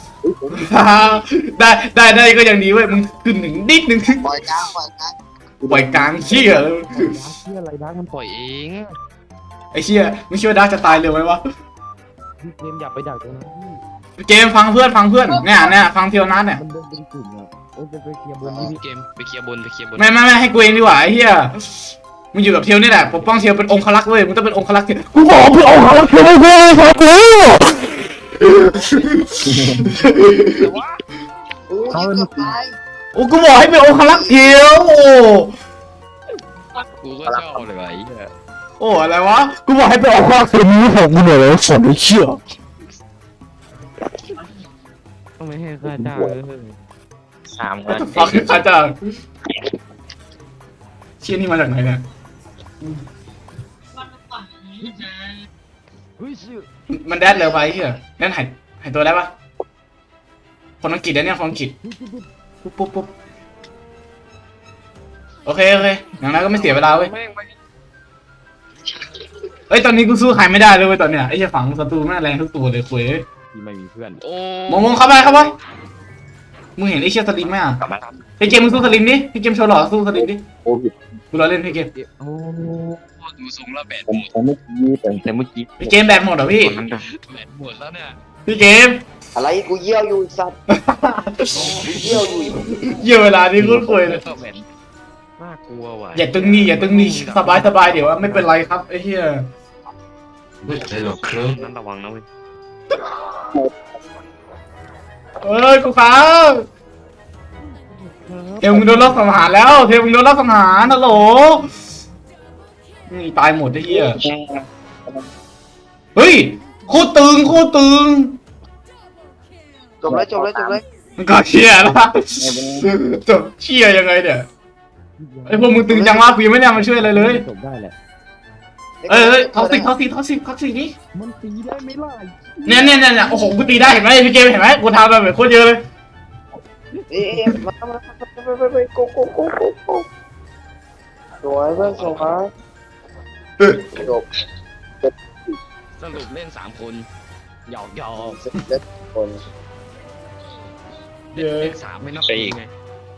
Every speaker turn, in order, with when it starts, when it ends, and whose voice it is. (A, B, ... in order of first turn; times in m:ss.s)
0:00.2-0:01.0 A
0:00.5-0:04.4 B
0:04.2-0:05.2 C
0:05.6-0:06.3 A
0:05.6-0:07.2 B
0:06.2-0:08.9 D
0:09.7-0:11.4 B
0:12.4-0:13.8 D
0:14.2-0:16.6 B
0:16.5-0:20.1 D
0:18.4-0:18.7 C
0:20.0-0:27.8 B
0:28.4-0:30.5 B
0:28.6-0:29.2 D
0:29.4-0:29.9 A
0:30.0-0:31.0 D
0:31.7-0:32.8 C
0:31.9-0:32.4 A
0:33.1-0:35.5 B
0:34.0-0:34.6 C
0:37.0-0:38.3 D
0:37.3-0:37.6 A
0:38.8-0:42.4 B
0:45.4-0:46.8 D
0:45.9-0:46.3 A
0:47.5-0:48.6 A
0:47.9-0:49.0 B
0:51.2-0:52.0 B
0:54.8-0:55.2 D
0:56.2-0:56.7 D
0:56.9-0:59.3 B
1:00.8-1:01.7 B
1:01.8-1:02.3 D
1:02.6-1:03.1 B
1:05.4-1:07.1 B
1:06.3-1:07.6 D
1:09.7-1:13.2 B
1:13.5-1:15.2 D
1:14.7-1:15.5 B
1:16.8-1:17.8 B
1:17.4-1:18.8 A
1:18.4-1:20.4 B
1:20.1-1:20.9 A
1:21.3-1:21.9 B
1:21.9-1:24.3 D
1:24.1-1:27.0 A
1:25.8-1:26.8 B
1:27.1-1:28.2 D
1:28.4-1:29.0 B
1:29.3-1:30.6 C
1:30.7-1:34.2 B
1:31.5-1:32.5 D
1:31.6-1:33.0 C
1:33.6-1:34.6 D
1:33.7-1:34.0 A
1:35.4-1:38.6 D
1:36.1-1:39.5 B
1:40.6-1:42.2 D
1:45.4-1:46.6 B
1:47.9-1:49.5 D
1:48.6-1:51.7 B
1:53.1-1:54.2 B
1:53.9-1:55.3 A
1:56.2-1:58.4 B
2:00.0-2:00.8 C
2:00.1-2:00.8 A
2:01.2-2:04.5 B
2:02.4-2:02.9 A
2:05.2-2:05.9 D
2:05.5-2:07.4 B
2:05.9-2:06.4 C
2:06.7-2:07.9 D
2:09.0-2:09.9 C
2:09.1-2:10.9 B
2:11.1-2:13.6 D
2:12.6-2:15.8 B
2:17.0-2:17.5 D
2:17.1-2:20.1 C
2:21.4-2:22.5 C
2:21.8-2:22.3 D
2:23.6-2:23.9 B
2:23.8-2:24.2 C
2:26.0-2:27.1 D
2:27.7-2:28.4 D
2:28.2-2:29.4 C
2:31.3-2:32.7 D
2:31.3-2:31.7 B
2:32.2-2:32.6 A